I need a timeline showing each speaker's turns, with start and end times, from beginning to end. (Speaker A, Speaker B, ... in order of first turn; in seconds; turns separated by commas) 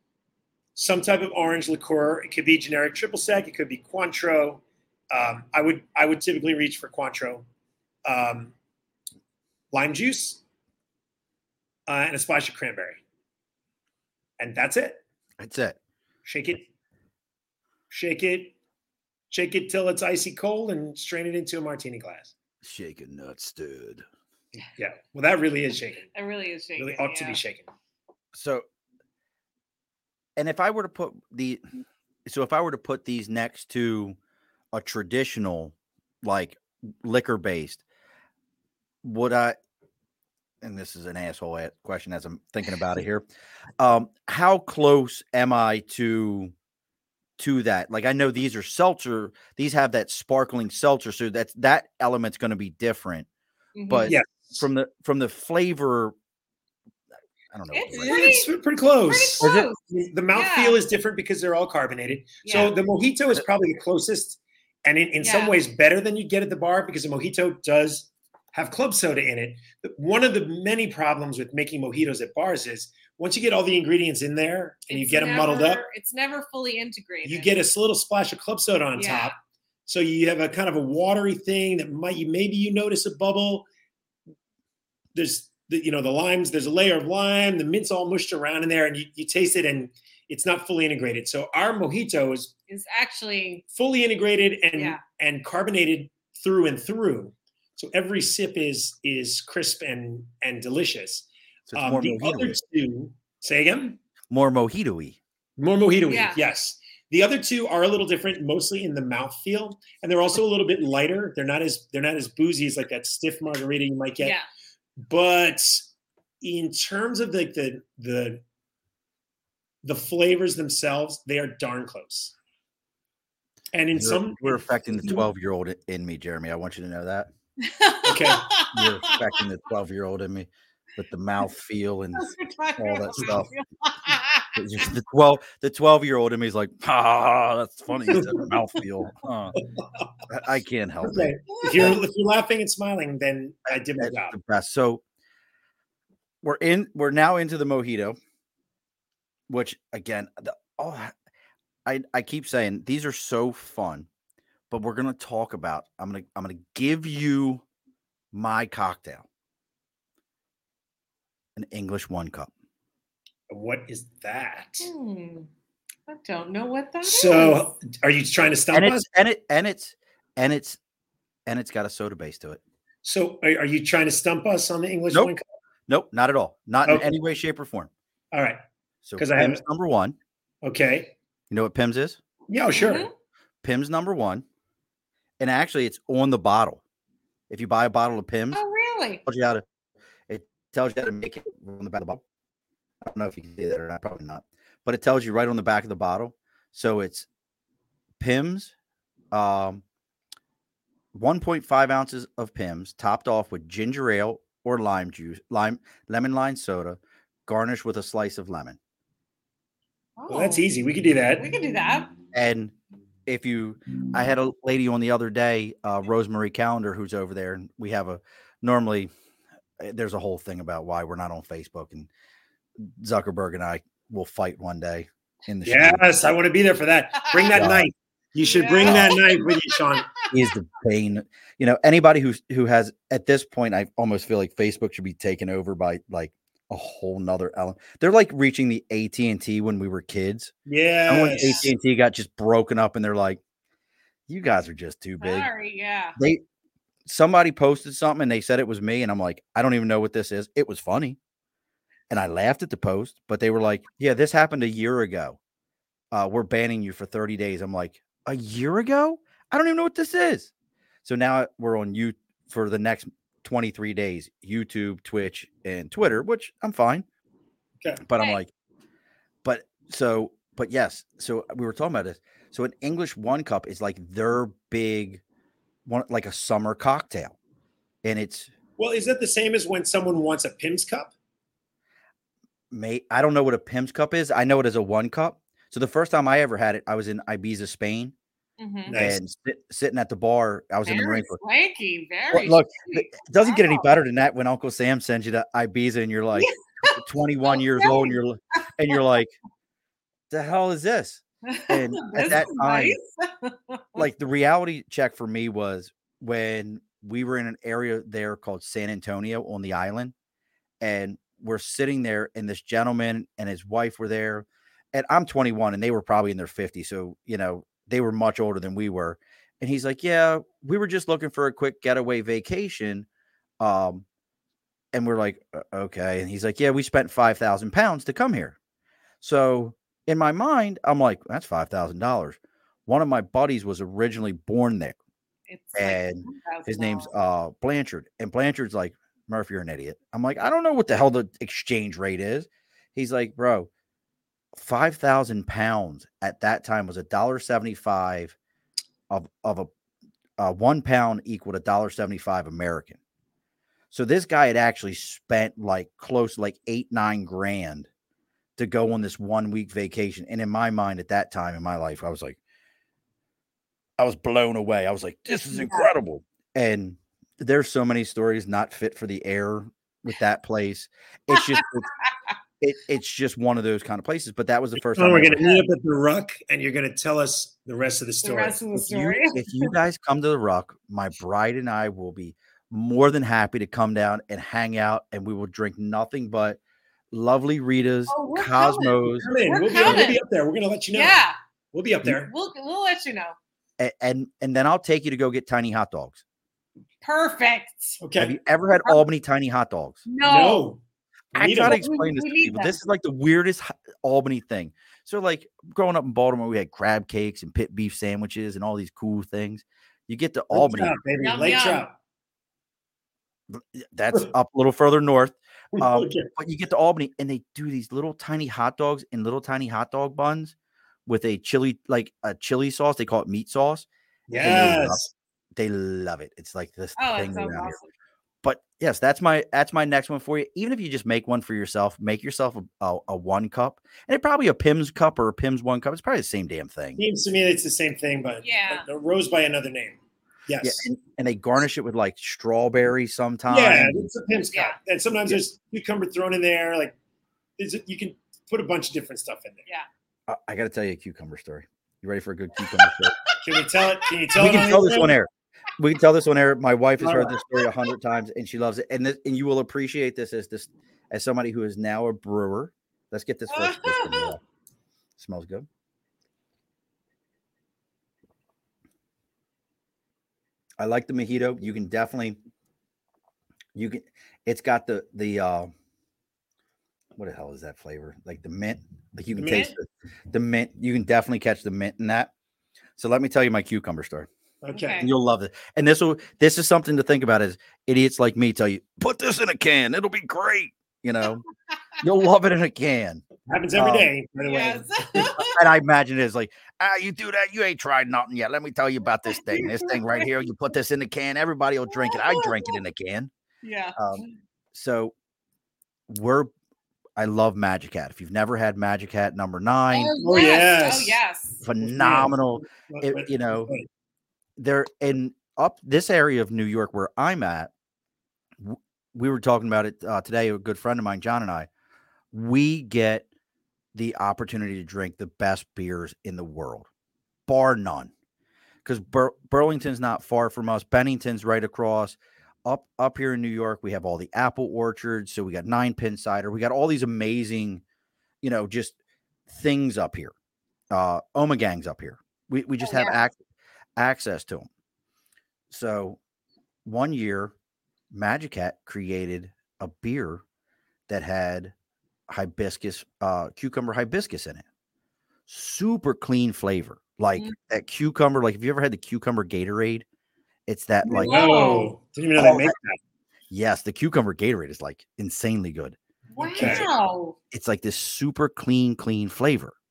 Speaker A: 0.8-7.5, Speaker A: 8.1-8.5, Speaker A: 9.7-10.4, Speaker A: 11.9-13.0, Speaker A: 14.4-15.0, Speaker B: 15.4-15.8, Speaker A: 16.2-16.7, Speaker A: 17.9-18.6, Speaker A: 19.3-22.3, Speaker B: 22.6-24.1, Speaker A: 24.6-26.1, Speaker C: 26.1-27.4, Speaker A: 26.8-27.7, Speaker B: 28.3-28.7, Speaker B: 30.4-31.6, Speaker B: 32.3-34.2, Speaker B: 34.7-37.8, Speaker B: 39.0-39.6, Speaker B: 40.6-43.3, Speaker B: 43.8-46.5, Speaker B: 47.4-53.3, Speaker C: 53.8-54.2, Speaker B: 53.9-56.1, Speaker A: 54.1-54.6, Speaker B: 57.5-58.2, Speaker C: 57.7-58.5, Speaker A: 58.0-75.8, Speaker C: 59.1-59.8, Speaker B: 59.4-59.7, Speaker C: 60.3-60.8, Speaker C: 62.4-62.7, Speaker C: 65.2-65.6, Speaker C: 74.9-77.5, Speaker A: 77.2-79.4, Speaker C: 79.0-79.3, Speaker A: 79.9-83.7, Speaker A: 85.2-92.5, Speaker C: 92.7-93.6, Speaker A: 93.7-104.0, Speaker C: 94.8-95.0, Speaker B: 101.7-102.6, Speaker B: 104.3-105.2, Speaker A: 105.6-114.4, Speaker C: 106.1-106.4, Speaker C: 114.2-114.5, Speaker A: 115.0-115.9, Speaker A: 116.4-118.4, Speaker A: 119.8-122.3, Speaker A: 123.7-125.2, Speaker B: 124.0-127.3, Speaker C: 127.6-129.4, Speaker A: 128.1-128.4, Speaker B: 128.7-133.5, Speaker C: 132.2-134.8, Speaker B: 134.6-139.6, Speaker A: 138.1-138.5, Speaker B: 140.3-142.0, Speaker A: 141.0-144.3, Speaker B: 143.7-145.0, Speaker B: 146.4-148.2, Speaker B: 149.5-151.1, Speaker B: 151.9-154.1, Speaker B: 154.7-157.6, Speaker B: 158.3-159.3, Speaker B: 161.6-162.5, Speaker A: 163.5-164.9, Speaker C: 164.8-165.5, Speaker C: 166.1-167.7, Speaker A: 167.0-169.0, Speaker B: 168.7-170.8, Speaker B: 171.5-172.6, Speaker A: 173.0-175.4, Speaker B: 175.9-177.9, Speaker A: 176.8-177.1, Speaker A: 178.3-178.6, Speaker B: 179.1-180.2, Speaker A: 179.2-179.6, Speaker A: 180.6-181.1, Speaker B: 181.5-182.2, Speaker A: 182.5-183.1, Speaker C: 182.8-183.1, Speaker B: 183.6-184.4, Speaker B: 185.4-186.8, Speaker B: 187.5-188.6, Speaker C: 188.5-189.2, Speaker B: 189.2-189.6, Speaker B: 190.3-192.2, Speaker B: 193.0-197.3, Speaker B: 198.2-198.7, Speaker B: 199.3-199.8, Speaker B: 201.1-208.8, Speaker C: 210.2-210.7, Speaker A: 210.3-211.5, Speaker C: 211.4-212.1, Speaker B: 212.3-212.8, Speaker B: 213.3-219.1, Speaker B: 219.8-222.1, Speaker B: 222.8-226.0, Speaker A: 225.7-230.1, Speaker B: 227.5-227.9, Speaker C: 228.4-230.3, Speaker B: 228.8-229.1, Speaker B: 230.3-240.5, Speaker A: 240.7-241.6, Speaker B: 241.1-243.4, Speaker C: 241.3-241.7, Speaker B: 244.3-245.5, Speaker C: 245.2-246.2, Speaker B: 247.1-251.2, Speaker B: 252.1-255.4, Speaker B: 256.1-260.5, Speaker B: 261.0-267.1, Speaker B: 268.0-268.5, Speaker B: 269.4-275.2, Speaker B: 275.9-277.4, Speaker B: 278.0-278.5, Speaker A: 278.8-281.1, Speaker B: 282.7-288.1, Speaker C: 288.6-289.0, Speaker A: 288.9-289.2, Speaker B: 288.9-291.4, Speaker C: 290.9-293.9, Speaker B: 292.3-299.3, Speaker C: 296.4-298.2, Speaker B: 300.3-303.0, Speaker C: 301.4-304.1, Speaker B: 304.0-310.1, Speaker B: 310.8-323.1, Speaker B: 323.6-324.1, Speaker B: 324.9-328.6, Speaker B: 329.2-335.0, Speaker C: 335.5-337.1, Speaker B: 335.8-343.7, Speaker B: 344.5-348.4, Speaker B: 349.1-349.7, Speaker B: 350.4-353.0, Speaker B: 353.9-357.9, Speaker B: 358.6-362.4, Speaker B: 364.0-371.9, Speaker C: 365.5-365.9, Speaker C: 371.3-371.6, Speaker B: 372.6-375.6, Speaker A: 374.8-379.2, Speaker C: 378.2-379.4, Speaker B: 379.3-386.6, Speaker B: 387.1-389.3, Speaker C: 388.1-390.2, Speaker A: 389.2-392.3, Speaker C: 390.9-391.4, Speaker C: 392.2-393.4, Speaker B: 393.8-396.2, Speaker C: 397.0-398.0, Speaker A: 398.0-398.4, Speaker B: 398.2-400.0, Speaker C: 400.1-400.7, Speaker A: 400.2-400.8, Speaker A: 401.3-401.8, Speaker B: 401.4-411.0, Speaker C: 401.6-402.8, Speaker A: 410.5-411.9, Speaker C: 411.2-411.9, Speaker B: 413.5-420.6, Speaker A: 415.7-416.3, Speaker B: 421.1-425.0, Speaker A: 424.3-425.1, Speaker B: 425.6-427.8, Speaker C: 427.0-427.9, Speaker B: 428.4-437.0, Speaker A: 437.0-440.9, Speaker C: 438.4-438.9, Speaker B: 440.6-444.1, Speaker A: 443.5-446.9, Speaker C: 444.4-444.8, Speaker A: 447.6-449.7, Speaker B: 450.3-453.1, Speaker A: 453.4-455.2, Speaker B: 454.4-464.4, Speaker A: 457.0-457.3, Speaker C: 463.5-464.3, Speaker B: 465.2-465.7, Speaker B: 470.8-472.4, Speaker B: 473.8-475.7, Speaker B: 477.1-482.3, Speaker A: 479.4-479.8, Speaker B: 483.0-484.3, Speaker A: 484.6-485.0, Speaker C: 484.7-485.1, Speaker B: 485.0-491.4, Speaker B: 492.0-493.2, Speaker A: 493.5-495.3, Speaker B: 493.8-494.1, Speaker C: 494.4-495.6, Speaker B: 495.4-503.3, Speaker C: 499.3-500.3, Speaker C: 501.9-502.8, Speaker C: 503.6-504.3, Speaker B: 503.9-505.1, Speaker B: 506.1-506.5, Speaker B: 507.2-510.1, Speaker C: 509.9-511.6, Speaker A: 510.2-513.9, Speaker B: 511.6-513.7, Speaker B: 514.6-517.7, Speaker B: 518.6-521.7, Speaker B: 522.3-523.3, Speaker B: 523.9-526.9, Speaker B: 527.5-528.1, Speaker B: 528.9-537.8, Speaker B: 538.4-539.0, Speaker B: 539.5-540.3, Speaker B: 540.9-543.4, Speaker C: 542.8-543.2, Speaker B: 544.0-544.7, Speaker B: 545.7-546.2, Speaker B: 546.9-547.5, Speaker B: 548.1-550.4, Speaker B: 551.1-551.8, Speaker B: 552.3-554.6, Speaker B: 555.5-560.0, Speaker B: 560.7-561.4, Speaker C: 561.0-561.9, Speaker A: 561.1-563.0, Speaker B: 562.4-562.7, Speaker B: 563.5-566.0, Speaker C: 566.3-567.4, Speaker A: 566.4-566.9, Speaker B: 566.6-566.9, Speaker B: 567.5-569.8